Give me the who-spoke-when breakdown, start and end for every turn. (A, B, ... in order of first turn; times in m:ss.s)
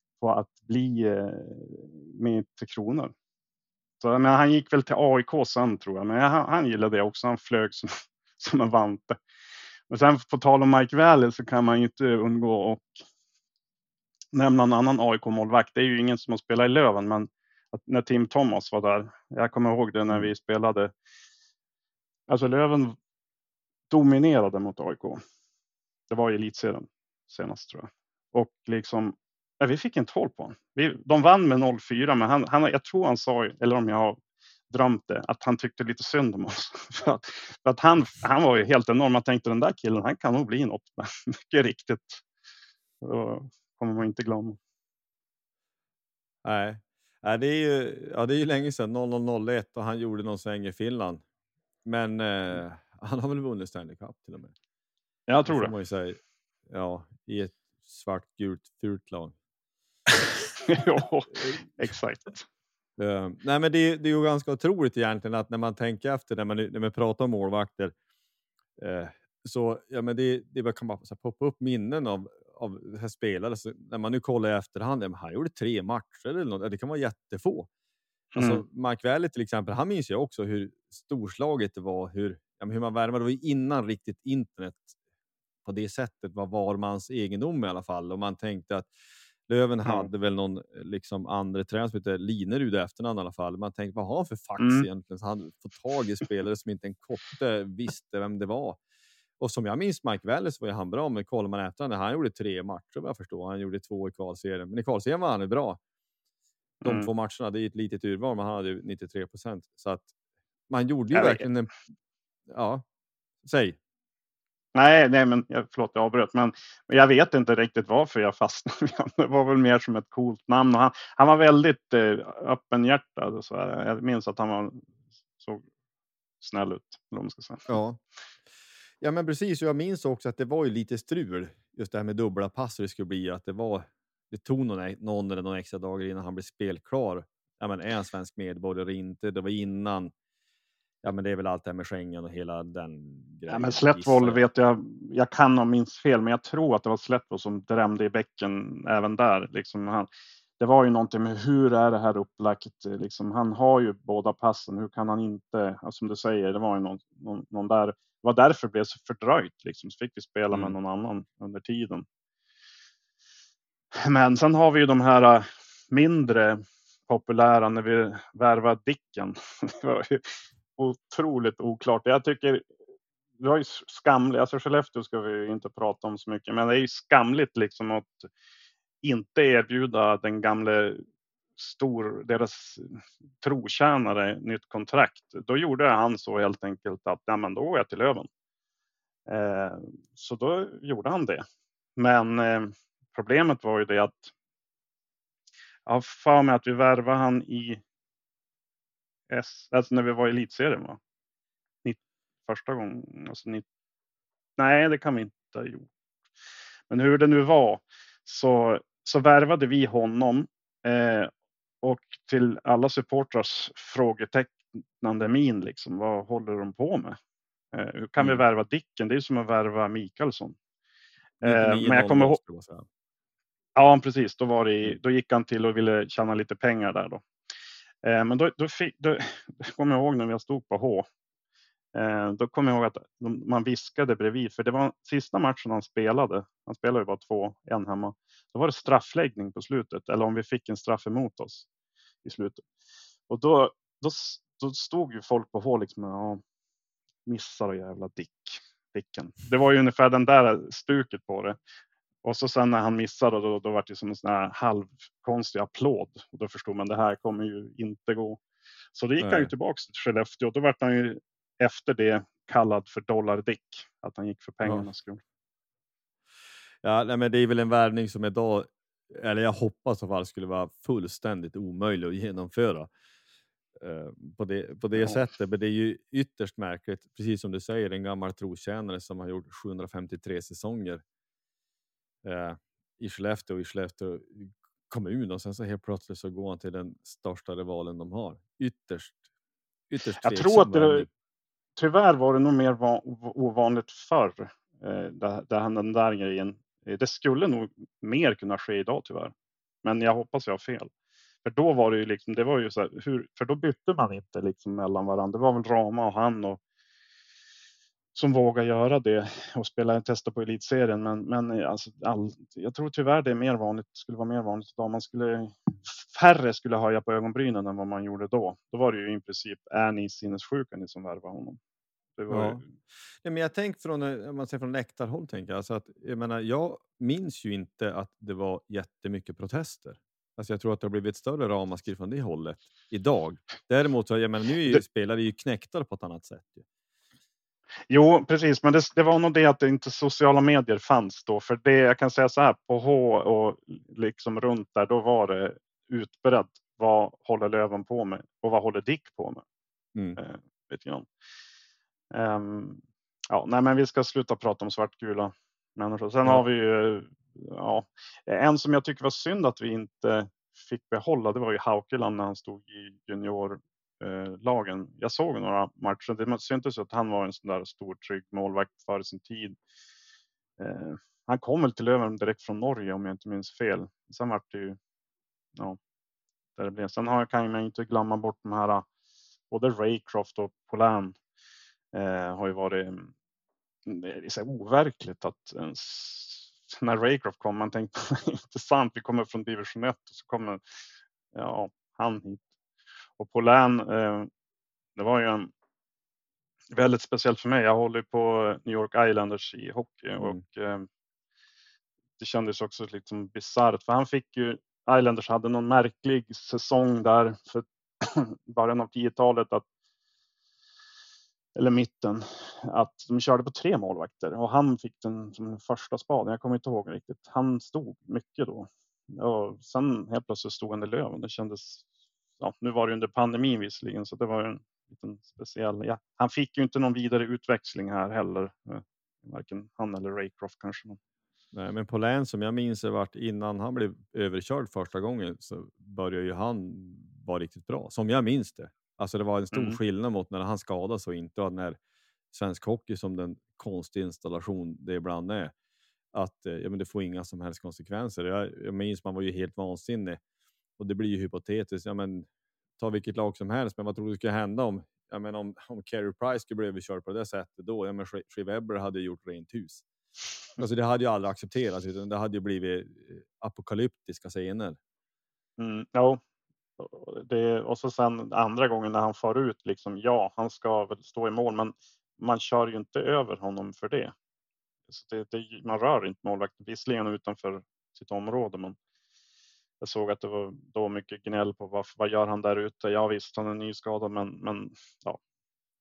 0:00.2-0:03.1 A
0:04.0-0:09.2 A
0:09.9-0:13.0 A
0:14.3-0:20.9 A
0:22.3-0:23.0 A
0:23.9-0:25.2 A
0:26.1-0:42.2 A
0:43.0-0:44.6 A
0:46.4-0:51.2 B
0:51.8-0:54.5 B
0:55.3-0:55.7 A
0:55.4-0:59.3 B
1:00.6-1:02.4 A
1:03.0-1:07.9 B
1:08.8-1:17.7 B
1:18.3-1:18.6 A
1:18.3-1:24.9 B
1:25.6-1:28.9 B
1:29.5-1:38.8 B
1:34.6-1:34.9 A
1:39.4-1:45.8 B
1:46.8-1:47.1 A
1:46.8-1:50.1 B
1:50.7-1:51.7 B
1:51.1-1:51.4 A
1:52.5-1:52.8 B
1:53.4-1:53.8 B
1:54.7-2:04.9 A
2:06.4-2:07.8 A
2:07.7-2:08.0 B
2:09.0-2:20.1 B
2:21.0-2:24.4 B
2:23.5-2:42.0 A
2:40.5-2:40.8 B
2:44.0-2:52.7 A
2:53.4-2:58.3 A
2:59.0-3:01.0 A
3:01.6-3:08.3 A
3:09.3-3:11.4 A
3:12.0-3:14.3 A
3:15.8-3:17.8 A
3:19.3-3:21.0 A
3:21.8-3:23.6 A
3:24.6-3:25.9 A
3:26.9-3:31.3 A
3:31.8-3:37.2 A
3:37.7-3:40.6 A
3:38.2-3:38.4 B
3:41.4-3:42.4 A
3:41.4-3:42.8 B
3:43.7-3:47.2 A
3:48.0-3:51.1 A
3:51.9-4:01.6 A
4:02.2-4:02.6 A
4:03.3-4:06.4 A
4:07.2-4:11.6 A
4:12.2-4:18.4 A
4:18.9-4:25.2 A
4:19.2-4:19.5 B
4:26.8-4:32.9 B
4:33.8-4:41.0 B
4:42.2-4:49.2 B
4:49.9-4:51.1 B
4:50.2-4:51.1 A
4:51.8-4:59.3 A
4:59.8-5:00.9 A
5:01.4-5:06.6 A
5:08.1-5:21.6 A
5:22.2-5:22.6 A
5:22.3-5:22.6 B
5:23.2-5:36.6 B
5:37.9-5:49.4 A
5:50.2-5:51.1 A
5:52.1-6:09.6 A
6:10.6-6:14.8 A
6:16.6-6:18.8 A
6:19.5-6:21.2 A
6:21.9-6:23.1 A
6:23.9-6:30.6 A
6:31.3-6:32.4 A
6:33.2-6:34.3 A
6:35.0-6:35.5 A
6:36.7-6:40.9 A
6:42.2-6:49.6 A
6:51.6-7:01.8 A
7:02.4-7:11.0 A
7:11.5-7:21.8 B
7:19.5-7:19.8 A
7:22.3-7:25.5 B
7:26.1-7:30.2 B
7:30.8-7:32.3 B
7:32.8-7:39.8 B
7:40.6-7:44.8 B
7:45.6-7:46.2 A
7:46.8-7:54.1 A
7:54.9-7:58.8 A
7:59.8-8:05.2 A